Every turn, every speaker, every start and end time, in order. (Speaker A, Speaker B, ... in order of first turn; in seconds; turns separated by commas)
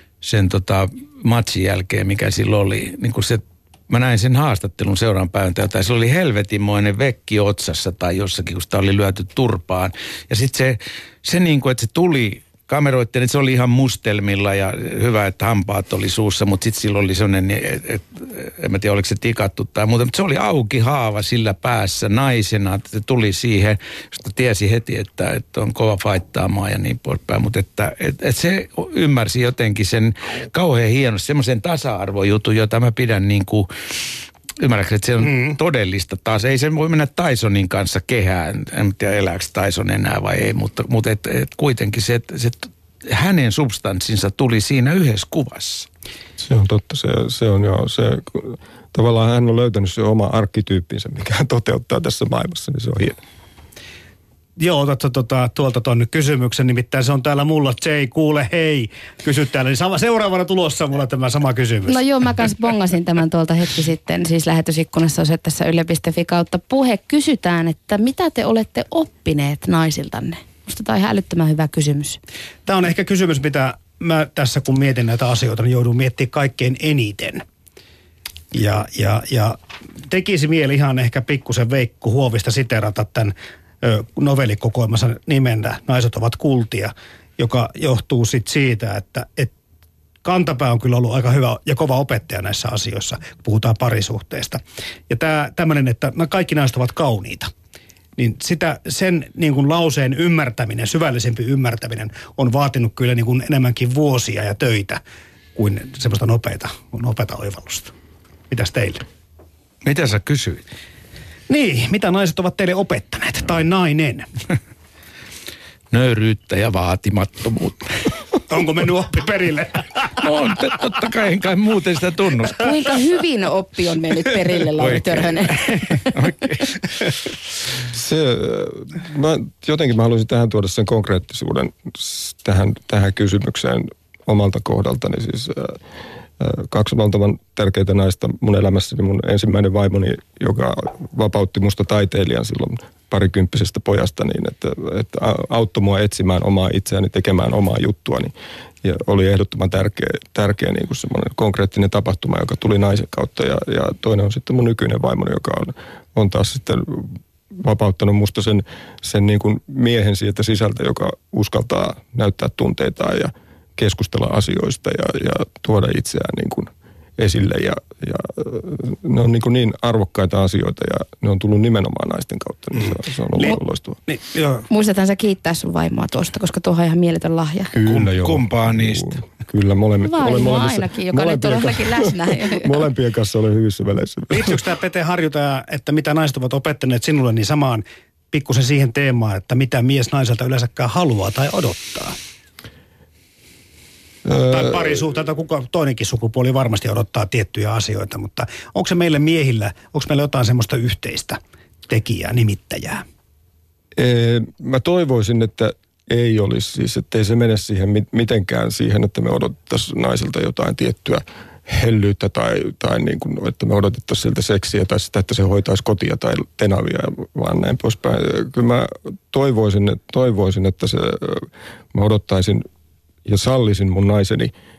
Speaker A: 0.2-33.7, Speaker A: 34.6-45.9, Speaker B: 46.4-53.2, Speaker C: 54.6-62.0, Speaker D: 61.9-72.2, Speaker C: 72.7-77.4, Speaker C: 78.5-79.6, Speaker C: 80.1-89.5, Speaker C: 90.2-97.5, Speaker C: 98.2-105.0, Speaker C: 105.5-107.9, Speaker C: 108.5-109.0, Speaker A: 109.8-110.6, Speaker C: 111.5-114.3, Speaker A: 115.9-118.1, Speaker C: 118.5-120.2, Speaker A: 120.2-122.7, Speaker D: 122.6-126.1, Speaker A: 124.8-126.9, Speaker B: 127.9-135.8, Speaker B: 136.4-148.3, Speaker B: 148.8-174.0, Speaker C: 172.8-174.7, Speaker D: 174.7-177.7, Speaker B: 177.7-184.6, Speaker A: 177.8-179.1, Speaker D: 180.0-182.8, Speaker C: 184.3-192.1, Speaker B: 194.2-195.0, Speaker C: 194.5-203.0, Speaker B: 203.9-222.7, Speaker B: 223.2-224.5